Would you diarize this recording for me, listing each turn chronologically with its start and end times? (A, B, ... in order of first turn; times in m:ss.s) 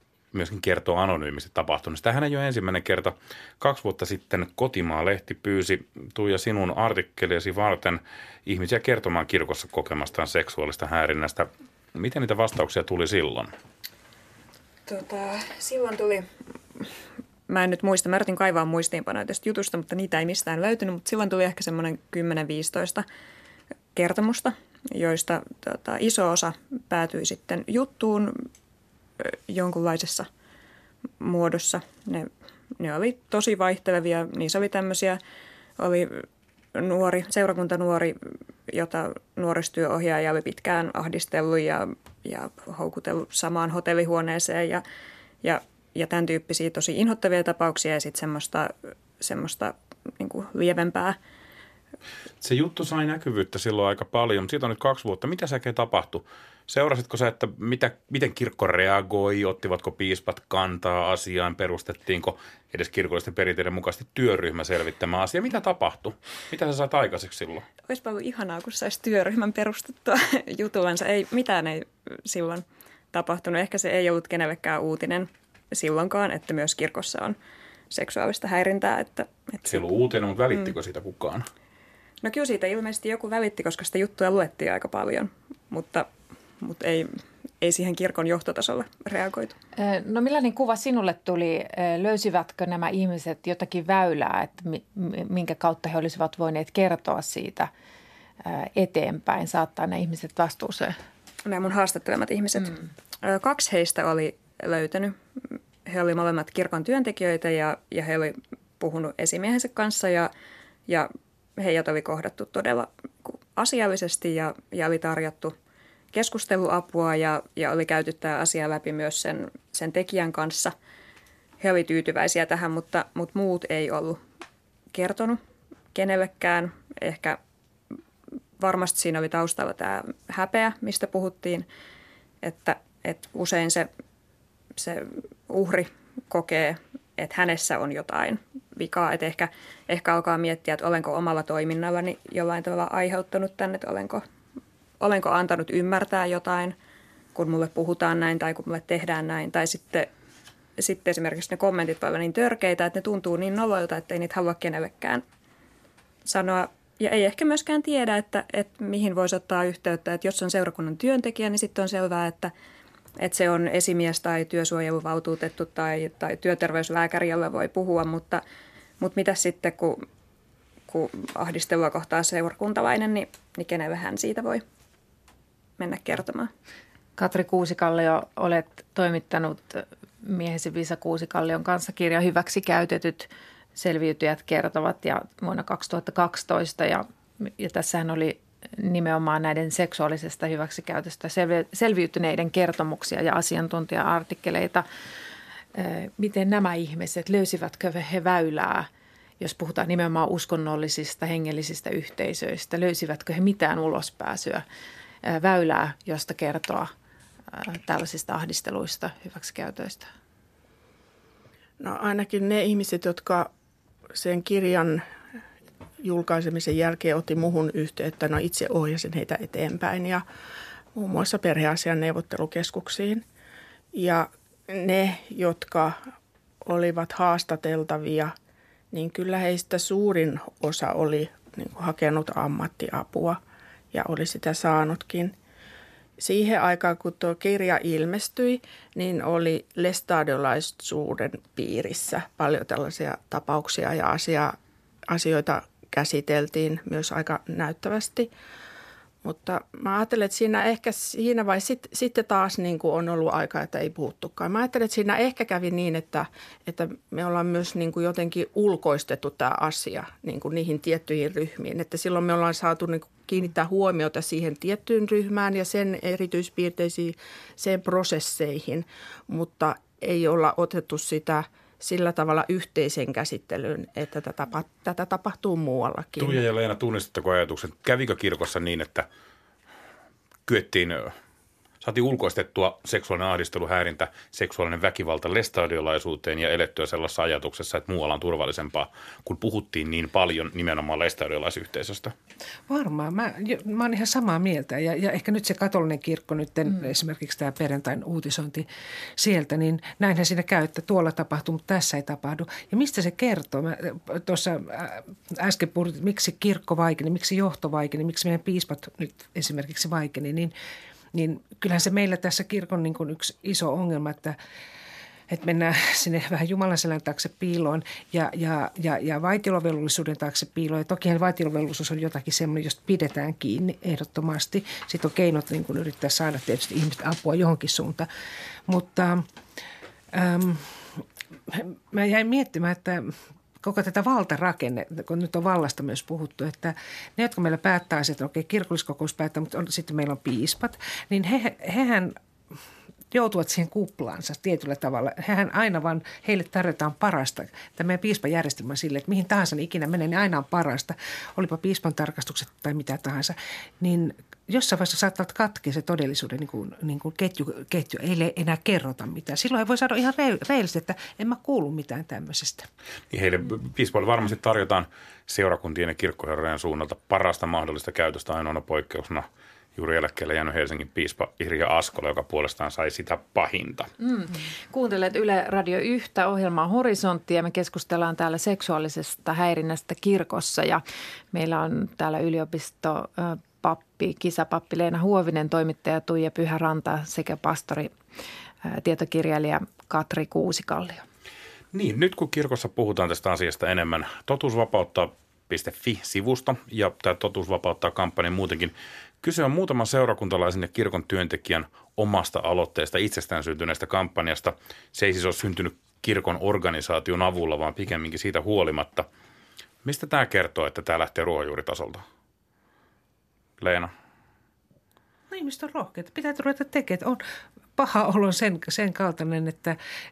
0:00.3-0:13.5 A
0:14.8-0:16.8 B
0:17.5-0:23.0 B
0:23.9-0:28.5 B
0:29.2-0:30.3 B
0:31.2-0:35.2 B
0:35.8-0:44.8 B
0:45.4-0:51.2 B
0:52.4-1:07.7 A
1:07.9-1:17.4 B
1:17.9-1:19.8 B
1:19.6-1:21.5 A
1:22.2-1:26.1 B
1:26.6-1:29.6 B
1:29.8-1:37.7 C
1:38.4-1:41.0 C
1:41.4-1:50.3 B
1:50.9-1:55.5 B
1:56.1-2:00.7 B
2:01.6-2:04.2 B
2:04.9-2:05.4 B
2:05.9-2:07.4 B
2:08.6-2:11.6 B
2:12.4-2:13.9 B
2:14.8-2:24.2 B
2:25.0-2:26.8 B
2:27.3-2:30.1 B
2:30.8-2:35.2 B
2:36.2-2:42.5 B
2:43.2-2:48.4 B
2:49.0-2:50.0 B
2:50.9-2:54.6 B
2:55.8-2:56.5 B
2:57.2-3:14.8 C
3:15.7-3:18.9 C
3:19.4-3:24.6 C
3:25.2-3:26.9 C
3:27.5-3:30.1 C
3:31.8-3:33.5 D
3:34.1-3:35.0 D
3:36.0-3:40.2 D
3:40.9-3:43.2 D
3:43.9-3:46.0 D
3:46.6-3:48.3 D
3:48.9-3:53.4 D
3:53.9-3:55.3 D
3:56.2-4:04.6 D
4:05.1-4:08.3 D
4:09.2-4:36.4 D
4:36.2-4:39.1 A
4:40.4-4:41.2 A
4:41.8-4:52.1 A
4:52.7-5:10.5 E
5:11.1-5:14.4 E
5:15.3-5:28.1 E
5:28.7-5:29.3 E
5:30.1-5:42.2 E
5:43.1-6:02.7 E
6:03.1-6:13.9 A
6:14.0-6:27.9 C
6:28.6-6:31.0 C
6:31.7-6:49.1 A
6:49.8-6:52.0 A
6:53.6-6:53.9 A
6:55.3-6:57.2 E
6:57.8-6:59.8 E